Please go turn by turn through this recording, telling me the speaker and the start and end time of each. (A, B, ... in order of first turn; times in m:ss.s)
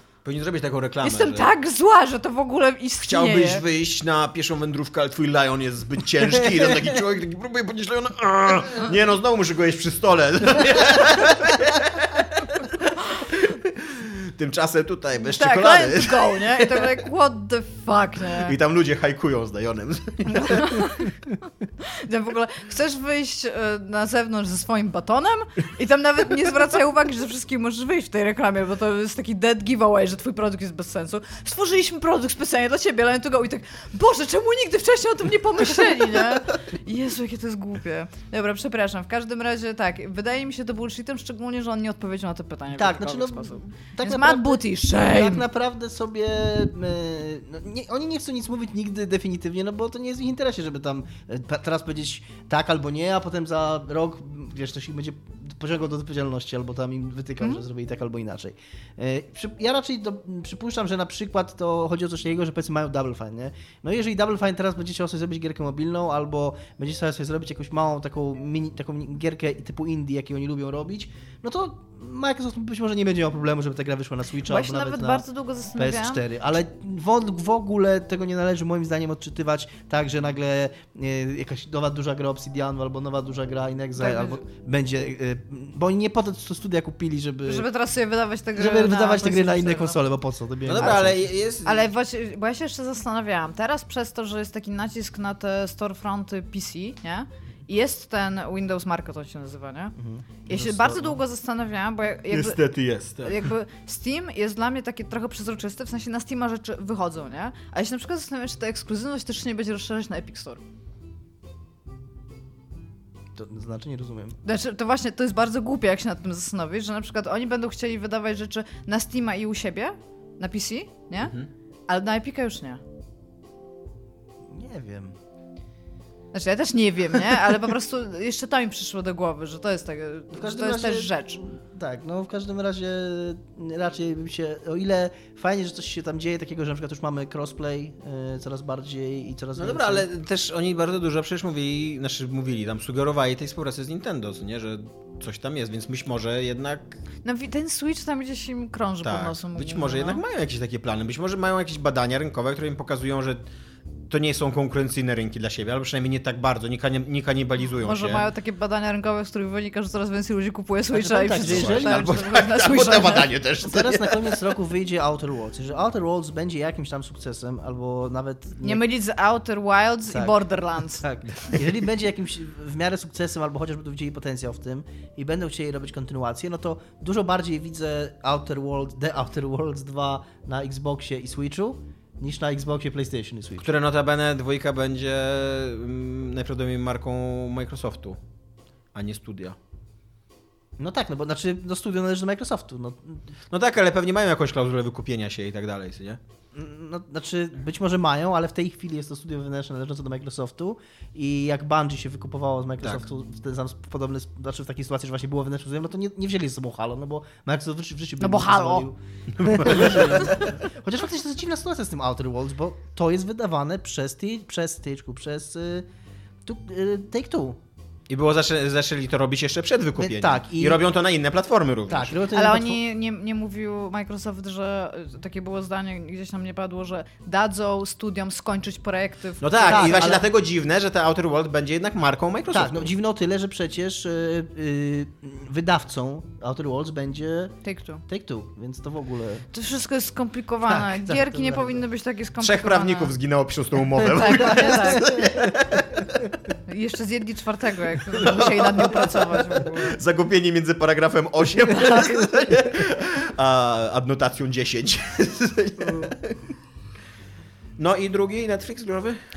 0:00.2-0:01.5 A
0:01.0-0:03.6 B
0:03.0-0:16.9 A
0:15.2-0:18.6 B
0:18.4-0:21.0 A
0:20.3-0:21.1 B
0:21.8-0:45.4 B
0:42.7-1:15.2 C
1:14.5-1:16.2 B
1:15.8-1:27.7 C
1:24.0-1:24.4 B
1:27.5-1:30.0 B
1:28.6-1:31.3 C
1:30.7-1:31.9 A
1:30.8-1:31.1 B
1:31.6-1:40.0 B
1:40.0-1:41.2 C
1:40.5-1:42.6 B
1:42.3-1:43.5 A
1:43.2-1:50.6 B
1:53.4-1:54.4 C
1:54.4-2:01.4 B
2:01.9-2:02.8 B
2:04.5-2:05.2 C
2:06.3-2:11.4 B
2:10.3-2:20.1 C
2:19.6-2:27.0 A
2:27.2-2:30.2 B
2:29.0-2:33.4 A
2:34.1-2:38.3 A
2:37.8-2:43.3 B
2:40.9-2:42.1 C
2:41.4-2:44.4 A
2:43.6-2:48.8 C
2:48.6-2:51.1 B
2:50.1-3:03.7 C
3:03.6-3:08.2 A
3:08.9-3:09.6 A
3:10.8-3:13.2 C
3:13.5-3:16.2 A
3:16.5-3:35.9 C
3:28.2-3:28.9 B
3:29.4-3:30.5 A
3:36.4-3:37.6 C
3:38.1-3:42.2 A
3:40.0-3:40.9 C
3:41.9-3:42.8 C
3:42.3-3:50.2 B
3:49.4-3:52.9 A
3:49.6-3:50.3 C
3:52.5-3:59.5 C
3:57.6-3:58.0 B
3:59.5-4:03.1 B
4:00.6-4:01.8 C
4:02.4-4:06.3 A
4:04.0-4:05.2 B
4:04.6-4:05.5 C
4:06.7-4:10.0 B
4:08.1-4:16.4 A
4:17.8-4:19.2 A